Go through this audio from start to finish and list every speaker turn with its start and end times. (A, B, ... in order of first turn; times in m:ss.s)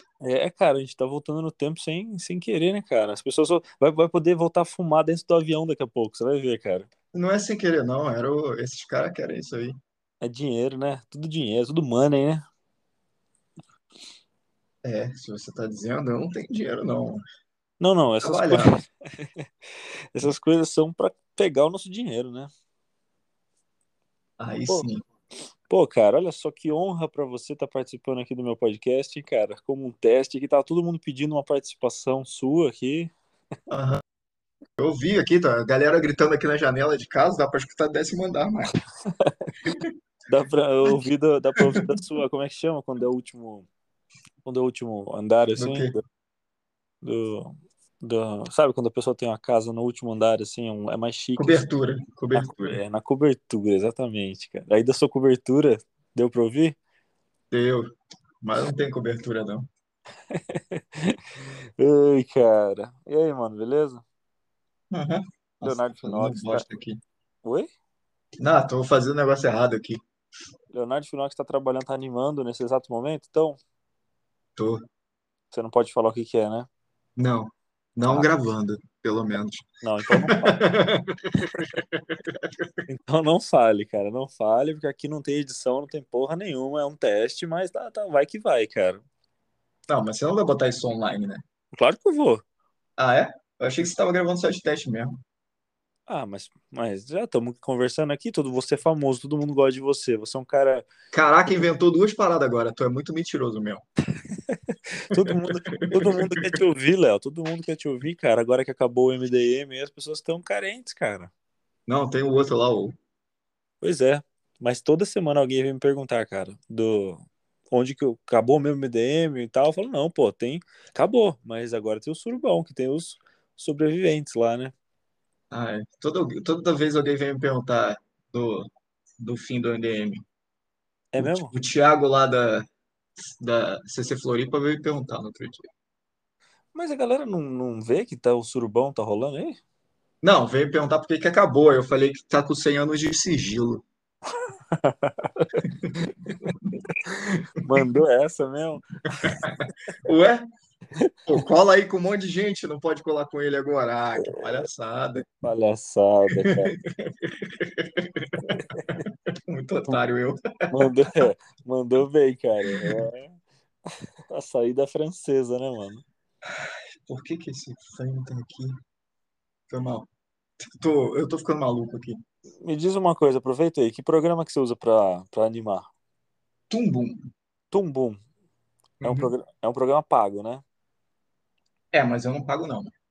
0:00.2-0:06.9 A
0:07.1-0:09.8 B
0:10.2-0:12.4 A
0:14.8-0:17.2 B
0:17.8-0:19.4 A
0:18.2-0:18.8 B
0:20.1-0:22.5 A
0:24.4-0:25.0 B
0:25.7-0:33.1 A
0:33.7-0:34.0 B
0:34.8-0:38.7 B
0:39.1-0:39.6 A
0:39.6-0:39.9 B
0:40.3-0:43.7 A
0:41.6-0:41.9 B
0:44.4-0:46.0 A
0:45.6-0:46.0 B
0:47.0-0:51.6 A
0:51.4-0:52.8 B
0:52.3-0:56.8 A
0:57.5-0:57.9 B
0:58.4-0:59.7 B
1:00.3-1:04.0 A
1:04.9-1:07.0 B
1:05.6-1:06.7 A
1:07.4-1:07.7 A
1:08.4-1:10.0 B
1:10.7-1:13.6 A
1:14.6-1:14.8 B
1:15.5-1:16.7 A
1:17.2-1:22.7 B
1:18.0-1:18.3 A
1:19.8-1:20.7 A
1:22.9-1:29.0 A
1:29.9-1:31.4 B
1:31.8-1:32.4 A
1:33.0-1:35.2 B
1:36.1-1:40.9 A
1:41.1-1:43.8 B
1:44.5-1:51.3 A
1:45.1-1:46.5 B
1:51.9-1:53.0 B
1:53.8-2:04.7 A
2:05.5-2:08.7 B
2:09.2-2:10.2 B
2:11.1-2:11.5 A
2:11.2-2:12.7 B
2:13.2-2:15.6 B
2:16.7-2:19.6 A
2:20.2-2:23.8 B
2:24.7-2:26.1 A
2:25.6-2:26.8 B
2:27.0-2:29.4 A
2:29.2-2:30.4 B
2:31.3-2:35.2 B
2:35.4-2:36.7 A
2:36.4-2:40.4 B
2:38.5-2:39.0 A
2:40.7-2:43.4 A
2:44.3-2:46.0 A
2:46.6-2:48.7 B
2:49.7-2:50.1 B
2:50.8-2:52.2 B
2:52.6-2:55.9 A
2:56.7-2:57.2 B
2:57.7-2:58.2 A
2:59.0-2:59.3 B
2:59.0-3:00.6 A
3:01.9-3:02.9 B